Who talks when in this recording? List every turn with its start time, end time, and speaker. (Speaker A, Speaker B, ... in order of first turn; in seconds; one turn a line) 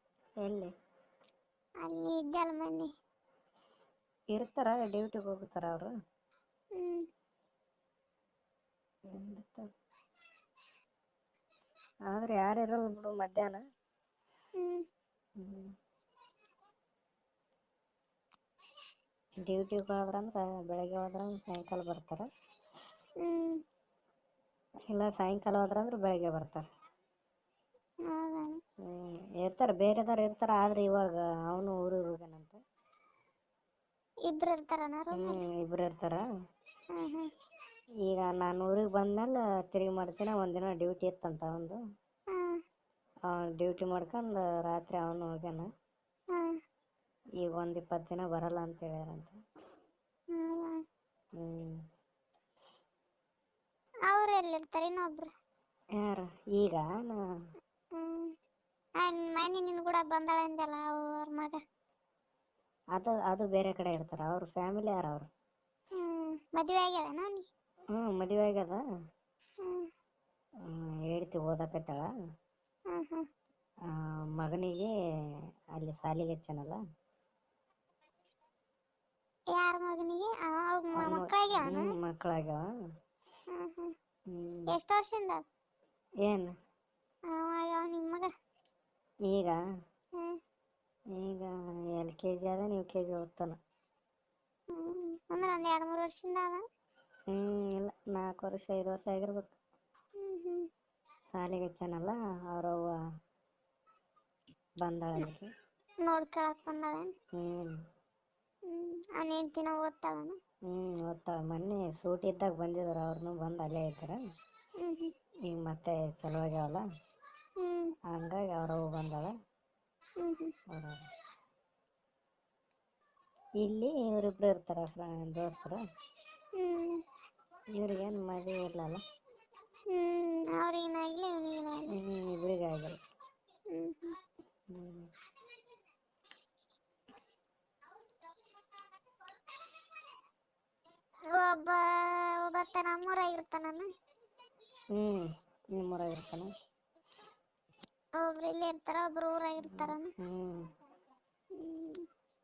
Speaker A: 0.4-0.7
Speaker B: 1.8-2.9
Speaker A: 4.3-5.9
Speaker B: 6.8-7.0
Speaker A: 9.1-9.7
Speaker A: 12.1-13.6
Speaker B: 14.6-14.8
Speaker A: 15.4-15.7
Speaker A: 19.4-22.3
Speaker B: 23.2-23.6
Speaker A: 24.9-26.6
Speaker B: 28.1-28.6
Speaker A: 28.9-32.6
Speaker B: 34.3-35.4
Speaker A: 35.2-36.2
Speaker B: 37.0-37.3
Speaker A: 38.0-41.8
Speaker B: 42.3-42.6
Speaker A: 43.3-45.7
Speaker A: 47.4-49.4
Speaker B: 50.3-50.8
Speaker A: 51.4-51.8
Speaker B: 54.1-55.3
Speaker A: 56.0-57.2
Speaker B: 58.0-58.3
Speaker B: 59.0-61.6
Speaker A: 63.0-65.2
Speaker B: 66.0-67.4
Speaker A: 67.9-68.8
Speaker B: 69.6-69.9
Speaker A: 70.7-72.1
Speaker B: 72.9-73.2
Speaker A: 73.9-74.9
Speaker A: 75.8-76.8
Speaker B: 79.5-81.9
Speaker A: 81.0-82.6
Speaker B: 83.5-83.9
Speaker A: 84.3-84.7
Speaker B: 84.7-85.4
Speaker A: 86.2-86.5
Speaker B: 87.3-88.3
Speaker A: 89.3-89.6
Speaker A: 91.2-93.5
Speaker B: 94.7-96.6
Speaker A: 97.3-99.5
Speaker B: 100.2-100.7
Speaker A: 101.3-102.9
Speaker A: 104.8-105.5
Speaker B: 106.0-107.1
Speaker A: 107.4-107.7
Speaker B: 108.7-110.4
Speaker A: 110.7-114.2
Speaker B: 114.8-115.1
Speaker A: 115.5-116.8
Speaker B: 117.6-117.9
Speaker A: 118.1-119.3
Speaker B: 120.2-120.5
Speaker A: 120.7-121.0
Speaker A: 123.6-125.8
Speaker B: 126.5-127.0
Speaker A: 127.7-129.0
Speaker B: 129.9-131.9
Speaker A: 131.9-133.0
Speaker B: 133.7-134.2
Speaker A: 134.7-135.1
Speaker B: 141.3-143.9
Speaker A: 144.9-146.5
Speaker B: 148.2-150.1
Speaker A: 149.7-150.7
Speaker B: 151.6-152.1